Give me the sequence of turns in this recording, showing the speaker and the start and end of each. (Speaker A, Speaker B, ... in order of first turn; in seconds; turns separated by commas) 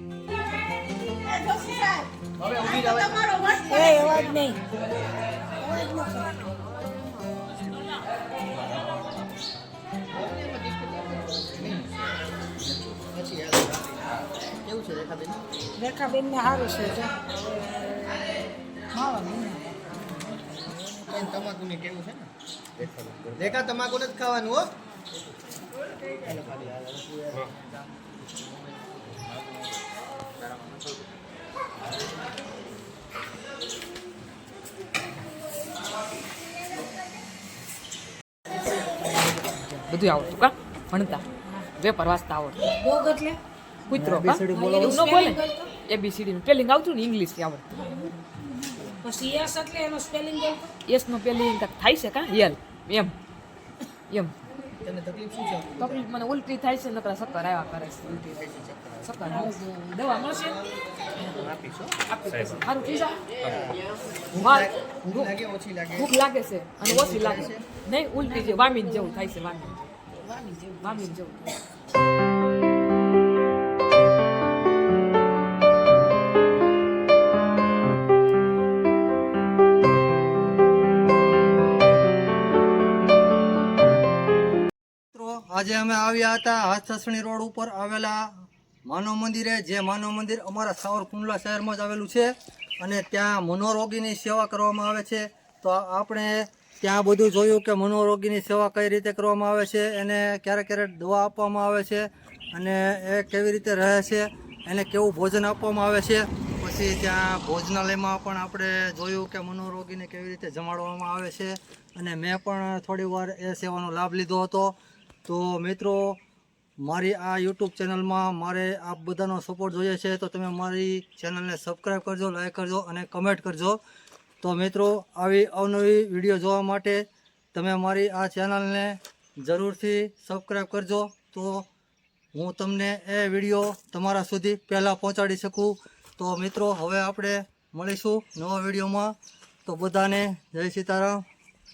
Speaker A: 1.5-2.0, Speaker B: 2.4-4.1, Speaker A: 3.7-4.6, Speaker A: 5.6-6.4, Speaker B: 10.1-11.9, Speaker B: 13.1-14.0, Speaker B: 14.6-15.4, Speaker A: 15.8-18.2, Speaker A: 18.9-19.6, Speaker B: 20.8-22.3, Speaker B: 23.4-24.7, Speaker B: 26.1-26.9, Speaker C: 39.4-42.7, Speaker A: 42.7-43.4, Speaker C: 43.9-47.8, Speaker D: 43.9-45.1, Speaker A: 44.4-45.7, Speaker A: 48.8-50.7, Speaker C: 50.9-53.1, Speaker C: 54.1-54.3, Speaker B: 54.8-56.0, Speaker C: 55.8-58.3, Speaker B: 58.2-59.2, Speaker C: 59.0-60.4, Speaker A: 59.4-60.6, Speaker B: 61.1-62.0, Speaker C: 62.1-63.1, Speaker B: 63.4-63.8, Speaker B: 64.3-66.1, Speaker C: 64.4-65.3, Speaker C: 65.9-69.8, Speaker B: 66.8-67.6, Speaker A: 68.3-69.2, Speaker A: 70.2-71.1, Speaker C: 70.8-71.5, Speaker D: 85.1-116.2, Speaker D: 116.8-123.8, Speaker D: 124.4-131.7, Speaker D: 132.3-141.2